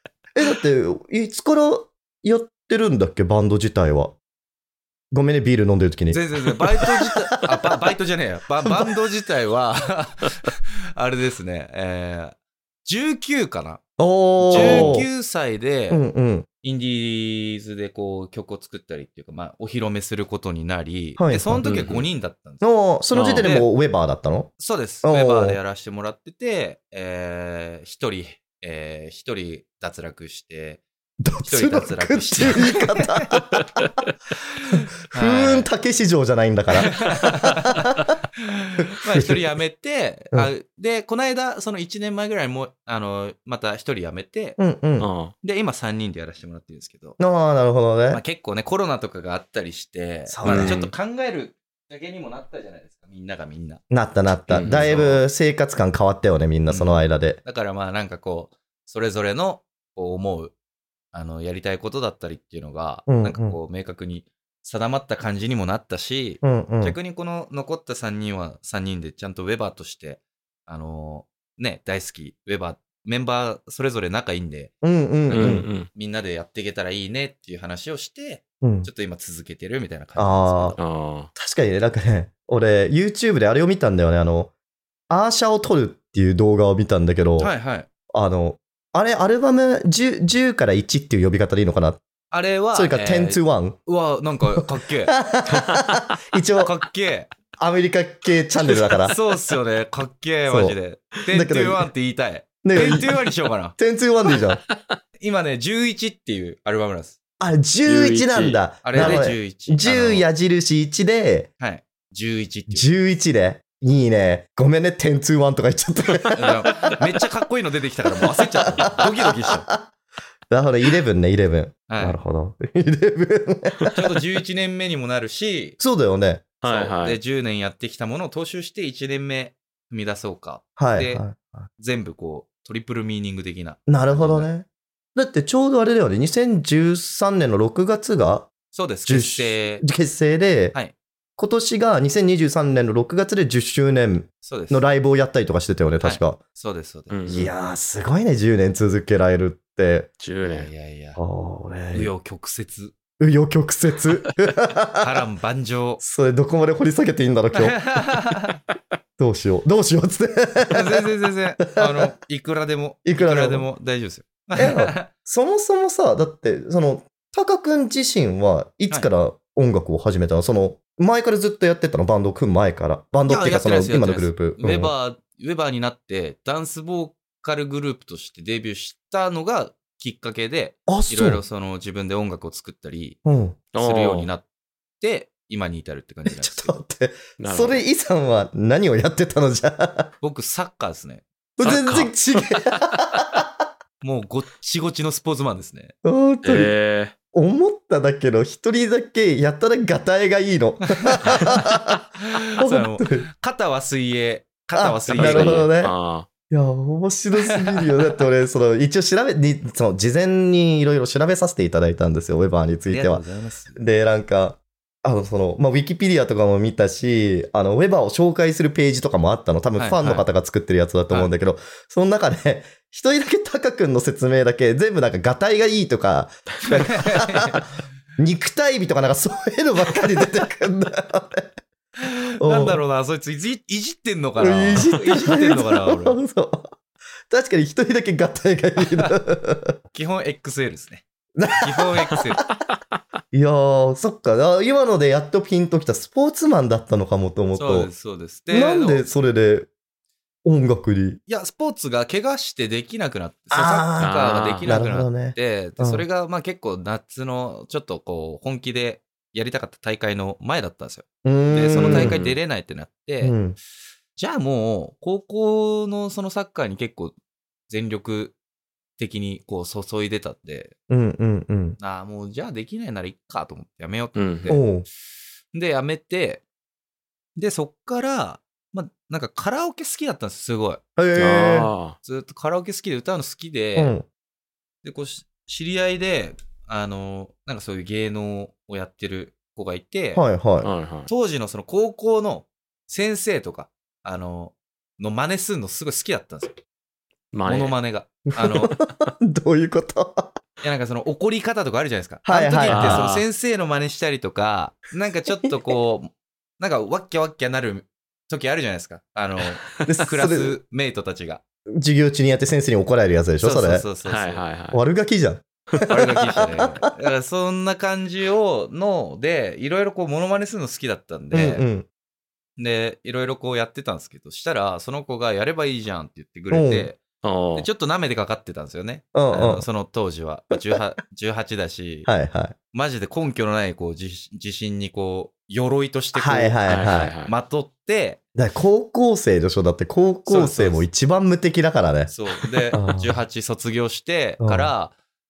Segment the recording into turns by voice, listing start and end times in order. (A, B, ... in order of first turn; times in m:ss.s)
0:00.4-0:04.2 A
0:05.1-0:07.5 A
0:06.1-0:13.8 B
0:14.0-0:15.1 A
0:14.4-0:16.0 B
0:14.4-0:15.0 C
0:15.9-0:16.4 A
0:16.6-0:22.6 B
0:21.2-0:21.9 A
0:21.6-0:22.0 C
0:22.6-0:24.5 A
0:23.1-0:23.5 C
0:23.3-0:23.7 B
0:24.6-0:30.8 B
0:25.0-0:25.6 A
0:31.2-0:33.4 A
0:31.4-0:33.4 B
0:34.6-0:35.7 B
0:35.1-0:38.1 A
0:36.9-0:37.9 B
0:38.4-0:44.6 B
0:38.8-0:39.4 A
0:44.6-0:45.1 A
0:45.0-0:45.3 C
0:45.4-0:47.2 B
0:47.2-0:48.2 A
0:48.1-0:53.8 B
0:50.3-0:50.8 A
0:50.4-0:50.9 C
0:53.9-0:57.4 A
0:54.5-0:55.2 C
0:56.7-1:00.5 B
1:01.1-1:14.7 B
1:03.1-1:03.6 A
1:06.4-1:07.0 A
1:14.8-1:15.7 A
1:15.3-1:20.8 B
1:15.3-1:15.9 C
1:18.6-1:18.9 A
1:20.2-1:20.8 A
1:20.8-1:21.3 C
1:21.3-1:24.5 A
1:25.1-1:27.5 A
1:27.4-1:27.9 B
1:28.1-1:32.0 A
1:32.3-1:35.1 B
1:32.7-1:33.8 A
1:34.6-1:36.7 A
1:35.5-1:36.2 C
1:36.6-1:37.3 B
1:37.6-1:39.2 A
1:39.0-1:43.8 B
1:40.5-1:40.8 A
1:41.3-1:41.9 A
1:42.6-1:43.1 A
1:43.8-1:44.6 A
1:45.2-1:47.2 B
1:47.4-1:51.5 A
1:47.8-1:49.2 C
1:48.8-1:50.3 B
1:51.6-1:52.9 B
1:52.7-1:56.9 A
1:56.3-1:59.7 B
1:58.3-1:59.9 A
2:00.5-2:03.9 A
2:01.9-2:02.2 B
2:03.9-2:05.8 B
2:05.8-2:06.4 A
2:06.6-2:07.2 C
2:06.6-2:11.2 B
2:10.8-2:11.7 A
2:11.8-2:14.5 B
2:13.9-2:18.5 A
2:18.7-2:19.8 B
2:19.0-2:20.8 A
2:21.4-2:26.4 A
2:24.4-2:24.9 B
2:26.0-2:27.3 B
2:27.1-2:27.5 C
2:27.3-2:30.1 A
2:30.2-2:30.7 C
2:30.4-2:31.2 B
2:31.2-2:32.1 A
2:31.9-2:32.9 B
2:33.2-2:35.2 A
2:35.0-2:36.0 B
2:36.0-2:37.8 A
2:37.5-2:38.6 B
2:39.2-2:41.0 A
2:40.7-2:45.1 B
2:41.6-2:42.1 A
2:43.0-2:43.6 A
2:44.6-2:54.9 A
2:53.3-3:03.2 B
3:00.9-3:01.4 A
3:03.2-3:03.6 A
3:03.7-3:04.3 C
3:03.8-3:04.4 B
3:05.0-3:06.8 B
3:06.2-3:10.1 A
3:07.4-3:07.8 C
3:10.2-3:11.8 B
3:11.6-3:13.4 A
3:11.6-3:12.4 C
3:14.0-3:15.9 B
3:16.0-3:16.8 A
3:16.4-3:17.1 C
3:17.3-3:22.0 A
3:21.1-3:25.7 B
3:22.6-3:23.3 A
3:24.7-3:26.0 A
3:25.1-3:26.3 C
3:26.5-3:33.2 A
3:32.9-3:33.8 B
3:33.8-3:47.6 A
3:39.8-3:40.3 B
3:46.6-3:47.7 B
3:48.2-3:51.5 A
3:52.0-3:56.2 B
3:52.4-3:52.8 A
3:54.4-3:56.8 A
3:57.3-3:59.8 A
3:59.9-4:01.0 B
4:01.4-4:01.8 A
4:01.6-4:02.4 B
4:03.3-4:07.9 A
4:07.5-4:09.1 B
4:08.5-4:09.7 A
4:10.4-4:11.2 A
4:11.2-4:23.4 B
4:13.5-4:16.0 A
4:14.0-4:14.8 C
4:21.2-4:22.2 A
4:21.7-4:22.4 C
4:23.2-4:23.6 A
4:24.2-4:27.1 B
4:27.7-4:28.4 B
4:29.0-4:30.7 B
4:30.9-4:31.8 A
4:31.8-4:34.7 B
4:34.1-4:34.5 C
4:34.5-4:34.8 A
4:35.5-4:36.4 B
4:37.3-4:40.8 B
4:41.0-4:41.7 A
4:41.2-4:42.0 C
4:42.0-4:43.9 B
4:43.8-4:44.0 A
4:44.8-4:50.3 B
4:50.1-4:50.7 A
4:50.6-4:51.1 C
4:51.1-4:56.6 B
4:57.3-4:57.8 C
4:57.4-4:58.8 B
4:58.3-5:00.4 A
5:00.6-5:11.4 B
5:02.2-5:03.1 A
5:02.6-5:03.2 C
5:09.8-5:10.6 A
5:11.7-5:13.8 A
5:13.4-5:14.4 B
5:14.0-5:14.8 C
5:14.7-5:16.7 A
5:15.9-5:21.6 B
5:21.3-5:21.9 A
5:22.6-5:32.1 B
5:26.5-5:26.9 A
5:27.2-5:27.7 C
5:29.1-5:29.6 A
5:32.0-5:32.5 A
5:32.7-5:38.2 B
5:36.1-5:37.2 A
5:36.7-5:37.3 C
5:38.3-5:42.1 A
5:40.2-5:40.8 B
5:42.1-5:44.9 B
5:42.7-5:43.2 A
5:44.4-5:44.7 A